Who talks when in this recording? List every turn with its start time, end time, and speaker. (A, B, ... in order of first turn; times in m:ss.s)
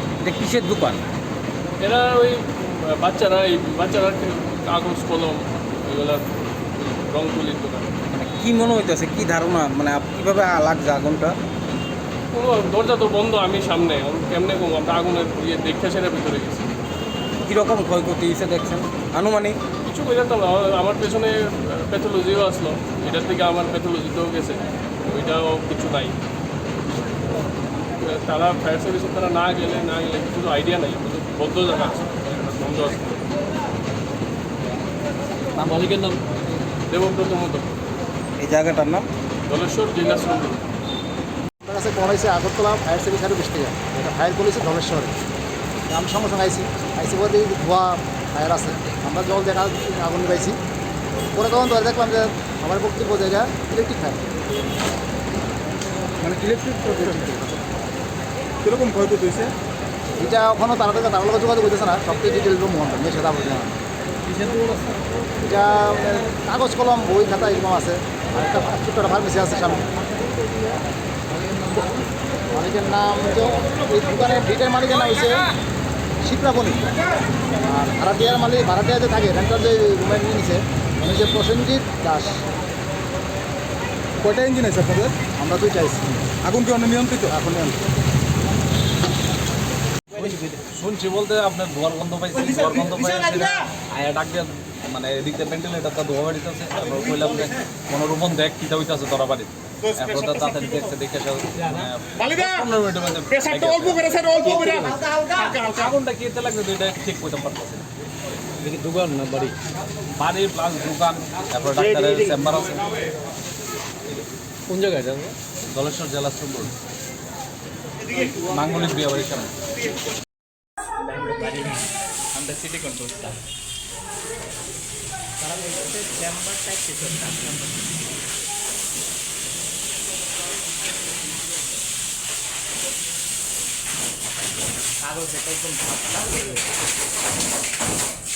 0:00.2-0:01.0 A
0:01.8-0:08.0 B
0:08.1-0:11.4 A
0:12.3-0:16.7 B
0:17.5-0:19.6 A
0:19.8-0:26.2 B
0:28.0-0:33.2 B
0:35.8-0:36.1 C
0:36.9-0:37.7 B
0:38.4-0:39.1 A
0:39.5-0:40.6 B
0:41.6-0:45.1 D
0:45.9-0:50.6 D
0:51.4-0:54.2 D
0:56.2-0:57.0 E
0:56.9-0:57.6 D
0:58.6-0:59.5 E
1:00.2-1:03.7 D
1:05.4-1:09.9 D
1:12.5-1:15.5 D
1:16.2-1:16.8 D
1:17.6-1:22.4 D
1:24.2-1:25.2 E
1:25.4-1:26.3 D
1:26.4-1:27.3 E
1:27.3-1:27.8 D
1:30.1-1:47.9 C
1:48.6-1:49.6 C
1:50.2-1:53.0 C
1:54.7-1:56.7 C
1:58.3-1:59.5 C
2:01.2-2:01.7 F
2:02.6-2:03.1 F
2:05.5-2:07.0 F
2:15.2-2:16.6 F